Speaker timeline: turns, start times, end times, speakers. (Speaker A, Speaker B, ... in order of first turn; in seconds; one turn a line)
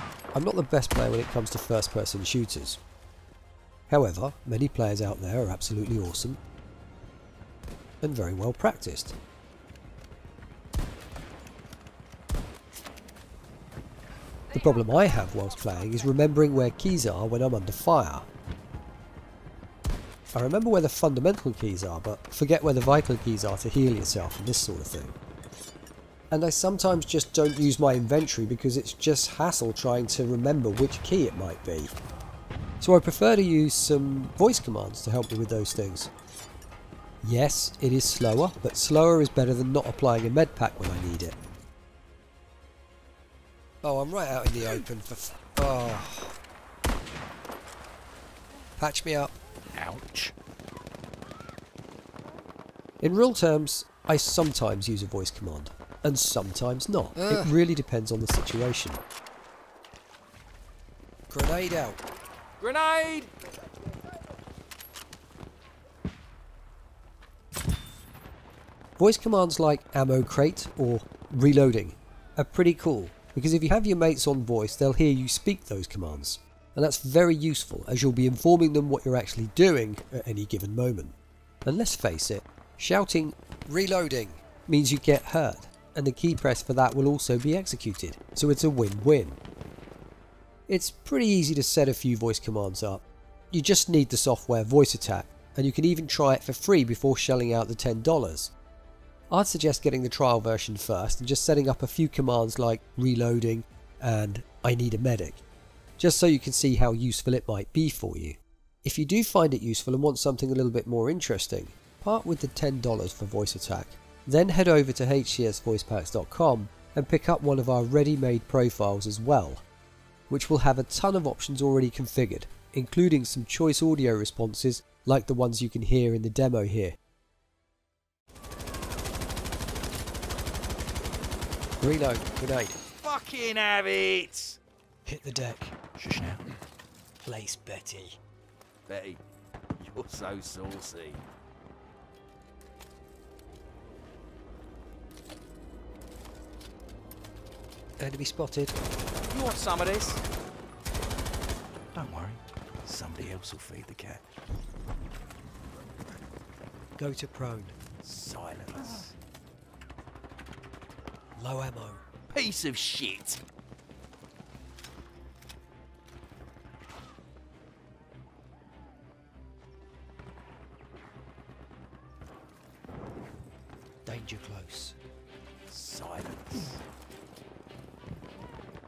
Speaker A: 0.3-2.8
Speaker A: 3.9-6.4
Speaker A: 8.0-9.2
Speaker A: 14.5-18.2
Speaker A: 20.3-25.1
Speaker A: 26.3-31.9
Speaker A: 32.8-36.1
Speaker A: 37.2-41.4
Speaker A: 43.8-46.3
Speaker A: 48.8-49.3
Speaker B: 49.7-50.3
Speaker A: 53.0-59.0
Speaker A: 61.3-62.0
Speaker B: 62.6-63.3
Speaker A: 69.0-89.4
Speaker A: 90.7-98.5
Speaker A: 99.3-105.4
Speaker A: 106.0-119.6
Speaker A: 120.3-127.0
Speaker A: 131.8-132.8
Speaker B: 133.0-134.6
Speaker A: 135.1-135.8
Speaker B: 135.9-136.4
Speaker A: 137.2-138.2
Speaker B: 138.9-139.2
Speaker B: 139.8-141.2
Speaker A: 148.0-148.7
Speaker B: 149.3-150.2
Speaker B: 151.9-154.2
Speaker A: 157.0-157.8
Speaker B: 158.0-159.1
Speaker A: 161.4-162.0
Speaker B: 162.3-163.4
Speaker A: 174.1-175.0
Speaker B: 175.7-176.8